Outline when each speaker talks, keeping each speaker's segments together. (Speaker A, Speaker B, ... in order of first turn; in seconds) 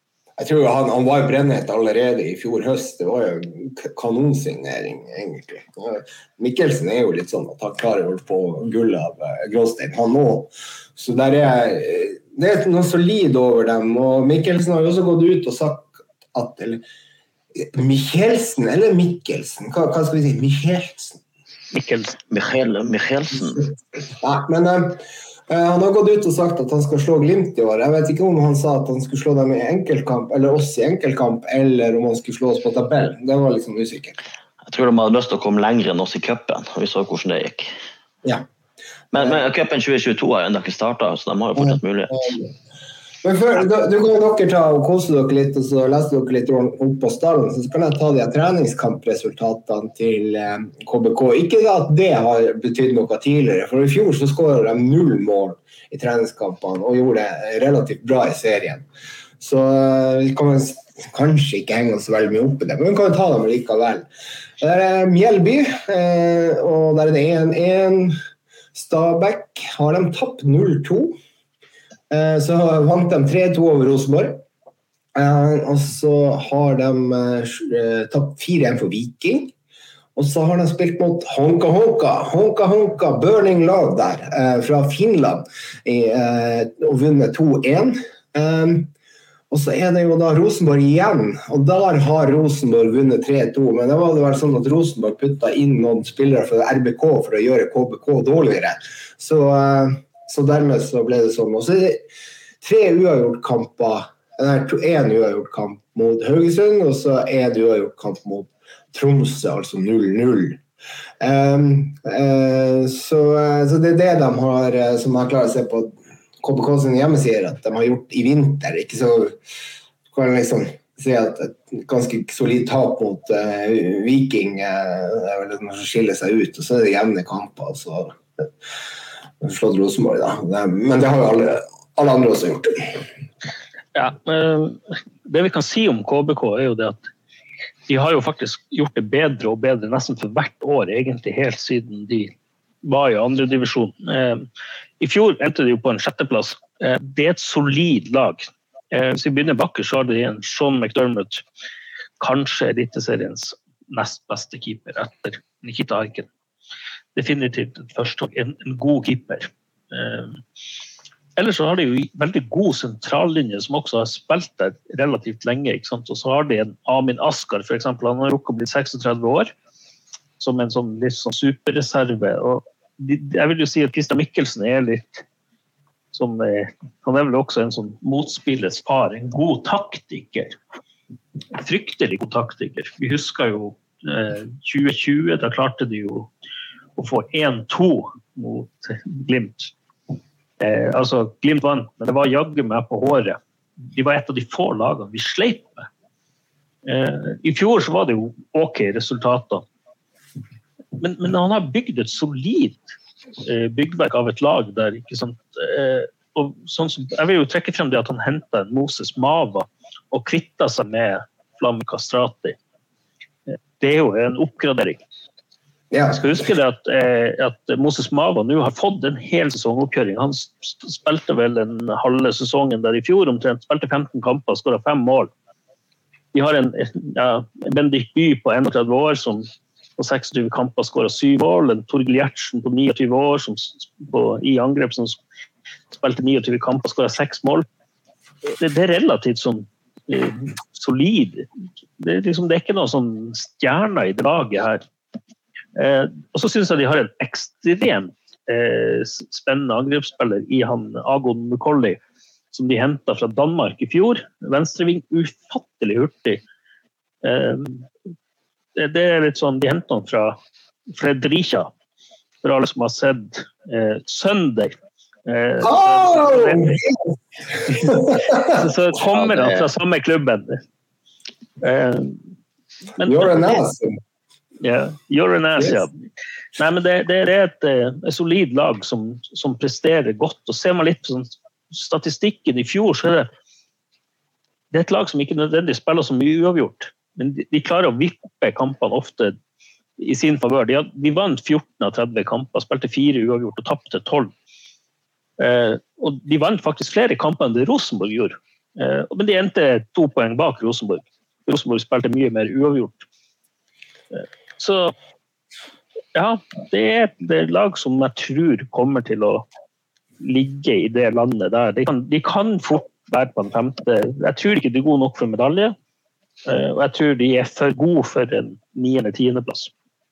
Speaker A: 0.4-16.8, 17.6-21.2, 23.3-34.2, 39.1-39.5, 41.6-42.5, 43.2-58.9, 59.4-64.1, 64.6-68.2, 68.7-71.2, 72.1-74.4, 75.2-79.5, 80.2-88.9, 89.5-102.0, 102.6-110.6, 111.2-119.4, 120.1-128.2, 129.4-133.0, 215.9-216.5, 265.6-267.0, 267.6-269.7, 273.0-274.0
Speaker B: 21.7-22.2, 133.9-137.1, 137.9-142.3, 142.8-144.5, 145.0-151.4, 152.2-156.3, 157.2-160.4, 161.4-169.5, 170.4-175.2, 176.1-180.6, 181.6-186.3, 187.0-189.7, 190.6-193.4, 193.9-195.9, 196.8-199.7, 201.0-202.9, 203.4-212.6, 213.8-215.0, 216.1-225.3, 226.3-235.2, 235.9-237.7, 238.6-241.5, 242.0-244.8, 245.8-252.0, 252.5-256.4, 257.2-257.9, 258.8-260.4, 260.9-261.7, 262.4-264.8, 265.3-266.8, 268.4-270.6, 271.6-272.3, 273.0-273.6, 274.6-275.9, 276.6-283.3, 284.7-289.4, 290.0-294.3, 295.4-303.1, 304.6-304.9, 306.1-309.4, 310.2-315.8, 316.5-319.7
Speaker C: 22.3-23.7, 34.7-37.7, 39.1-42.2